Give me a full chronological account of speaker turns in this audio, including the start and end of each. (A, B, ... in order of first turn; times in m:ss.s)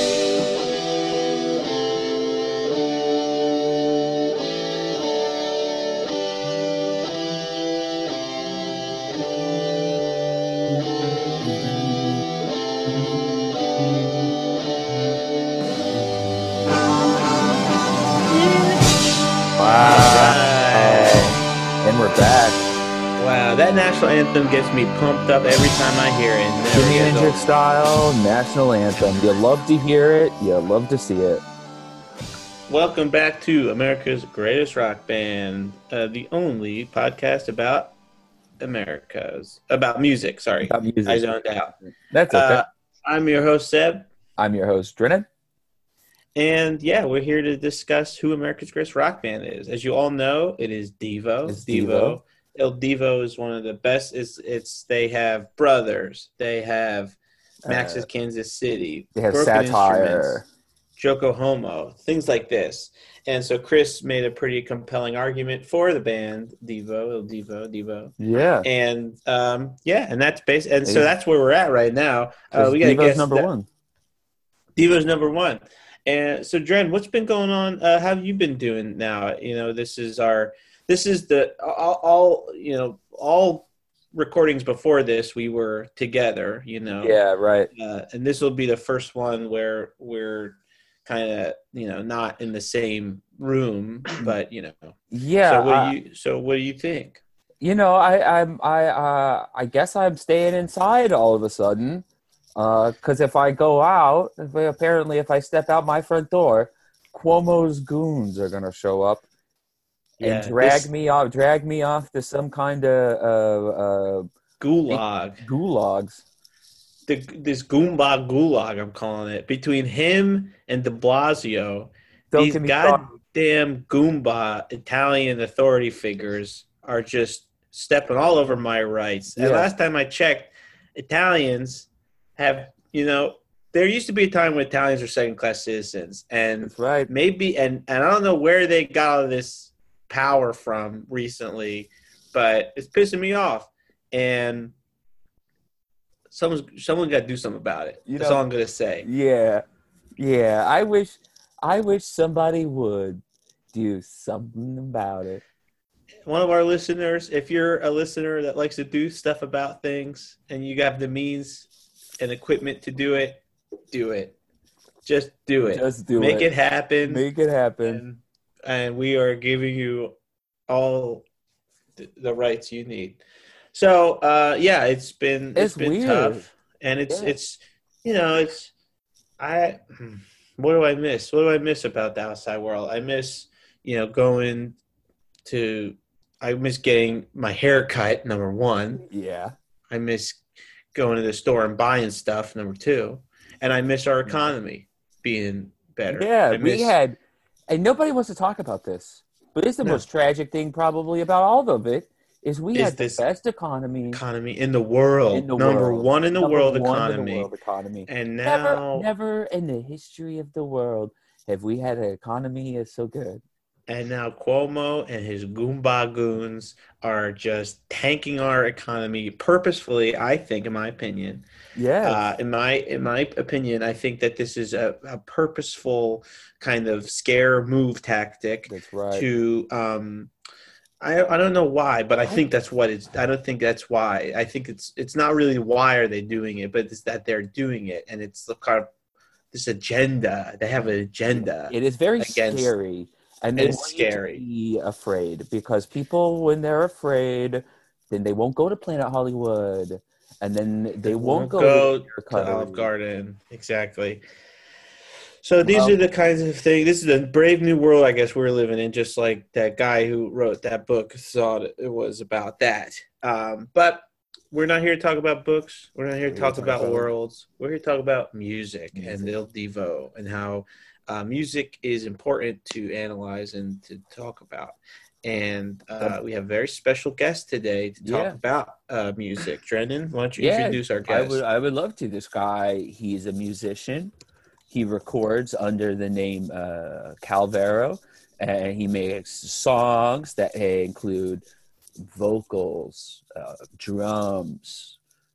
0:11.4-0:12.1 A
0:19.6-0:22.6 A
0:19.8-0:21.3 B
0:23.2-0:27.4 B
0:26.7-0:31.4 A
0:32.7-0:37.9 B
0:38.6-0:41.7 B
0:40.7-0:41.3 A
0:41.8-0:42.6 A
0:42.3-0:44.1 B
0:44.4-0:45.3 A
0:46.4-1:00.4 B
0:51.4-0:52.2 A
0:57.6-0:58.1 A
0:59.1-1:00.4 A
1:01.0-1:13.5 B
1:08.2-1:08.7 A
1:10.8-1:11.1 A
1:12.5-1:13.6 A
1:14.8-1:27.2 B
1:27.0-1:27.7 A
1:27.7-1:37.2 B
1:35.1-1:35.9 A
1:37.6-1:42.0 A
1:42.6-1:49.2 A
1:50.2-1:50.9 B
1:50.2-1:54.3 A
1:54.6-1:55.4 B
1:54.9-1:56.2 A
1:57.1-2:24.7 B
2:02.3-2:03.1 A
2:09.3-2:09.7 A
2:16.6-2:17.1 A
2:26.3-2:29.1 B
2:28.1-2:28.4 A
2:29.0-2:29.6 A
2:30.2-2:35.4 A
2:36.2-2:41.6 B
2:42.2-2:44.4 B
2:45.0-2:47.3 B
2:45.7-2:46.5 A
2:47.0-2:48.0 A
2:47.8-2:50.1 B
2:50.7-2:51.2 B
2:52.0-2:53.2 B
2:53.7-2:58.7 B
2:55.6-2:56.4 A
2:57.1-2:57.4 A
2:59.4-3:04.8 B
3:05.4-3:09.0 B
3:09.1-3:09.5 A
3:09.9-3:10.4 B
3:10.9-3:16.9 B
3:14.2-3:14.5 A
3:16.1-3:24.2 A
3:22.7-3:23.2 B
3:24.1-3:27.5 B
3:25.3-3:33.4 A
3:28.1-3:29.1 B
3:33.9-3:41.4 B
3:41.8-3:42.3 A
3:42.0-3:50.3 B
3:48.7-3:49.3 A
3:51.0-3:58.9 B
3:59.5-4:02.7 B
4:01.3-4:12.9 A
4:03.6-4:04.4 B
4:11.0-4:14.2 B
4:15.4-4:41.4 B
4:15.6-4:16.0 A
4:26.3-4:27.1 A
4:28.9-4:29.3 A
4:38.0-4:38.4 A
4:40.4-4:44.1 A
4:44.7-4:51.4 A
4:52.0-4:55.0 A